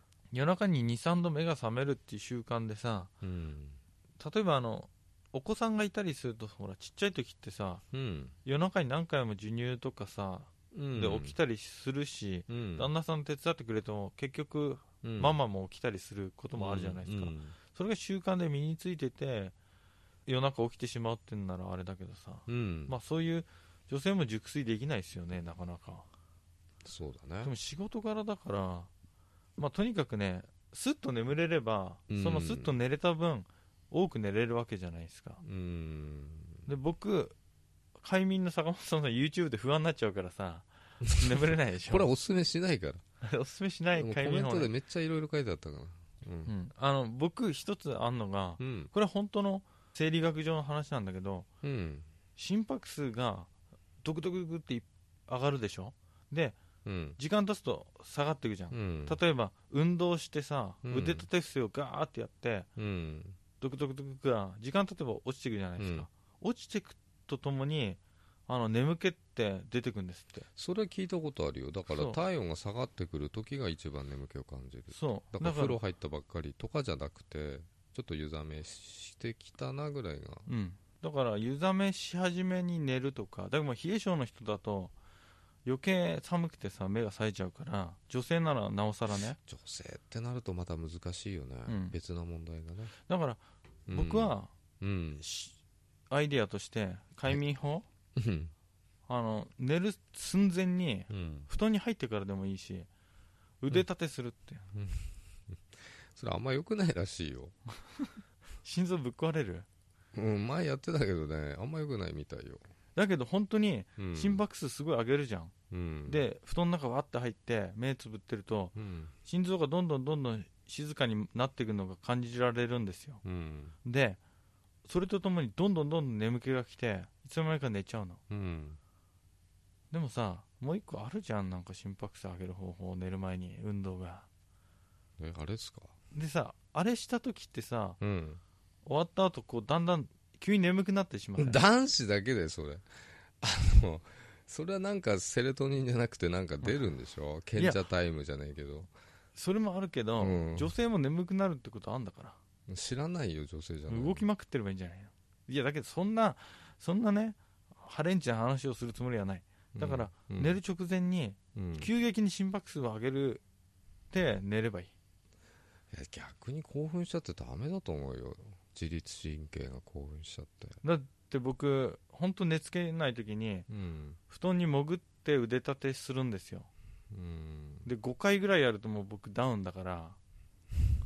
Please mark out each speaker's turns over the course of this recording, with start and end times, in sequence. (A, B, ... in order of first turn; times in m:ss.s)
0:00.3-0:03.1 A
0:03.2-0:03.8 B
0:04.2-0:07.8 A
0:07.9-0:08.4 B
0:08.4-0:19.5 A
0:10.7-0:11.4 B
0:12.5-0:12.9 B
0:15.0-0:15.4 B
0:16.6-0:17.6 B
0:20.3-0:26.1 A
0:22.5-0:23.0 B
0:26.8-0:27.5 B
0:27.4-0:28.9 A
0:29.6-0:35.4 A
0:32.1-0:32.8 B
0:35.4-0:36.7 B
0:36.7-0:37.4 A
0:38.0-0:42.1 A
0:41.2-0:43.0 B
0:43.2-0:44.7 A
0:44.0-0:46.5 B
0:46.5-0:51.5 A
0:48.6-0:48.9 B
0:51.6-0:52.1 B
0:52.4-0:53.5 A
0:54.0-0:56.6 A
0:56.8-0:57.2 B
0:57.2-1:02.7 A
0:58.7-0:59.2 B
1:00.8-1:01.3 B
1:02.8-1:03.4 B
1:03.6-1:10.5 A
1:05.8-1:06.1 B
1:10.6-1:20.5 B
1:11.9-1:12.2 A
1:14.9-1:15.8 A
1:20.5-1:25.0 A
1:25.7-1:29.4 A
1:29.4-1:32.9 B
1:31.7-1:32.0 A
1:33.1-1:34.5 A
1:33.9-1:35.2 B
1:35.2-1:35.6 A
1:36.1-1:37.9 A
1:38.2-1:38.5 B
1:39.1-1:42.9 A
1:41.1-1:41.5 B
1:43.6-1:44.6 A
1:44.7-1:47.6 B
1:48.6-1:49.7 A
1:50.1-1:52.6 B
1:53.0-1:55.5 A
1:54.0-1:54.4 B
1:55.7-1:56.2 B
1:56.1-2:03.2 A
1:58.8-1:59.1 B
2:03.2-2:03.7 B
2:03.8-2:04.2 A
2:04.8-2:08.2 A
2:08.3-2:08.8 B
2:09.9-2:14.3 A
2:15.2-2:15.9 B
2:16.1-2:18.0 A
2:18.0-2:18.4 B
2:18.8-2:21.6 A
2:21.4-2:22.9 B
2:23.4-2:28.9 B
2:27.6-2:27.8 A
2:29.4-2:32.4 A
2:30.2-2:30.7 B
2:32.7-2:34.3 B
2:33.9-2:43.4 A
2:39.8-2:40.6 B
2:41.6-2:41.9 B
2:44.1-2:44.9 A
2:45.9-2:50.8 B
2:50.8-2:53.7 A
2:53.7-2:54.2 B
2:54.3-2:56.7 A
2:57.1-2:57.9 B
2:57.8-3:00.2 A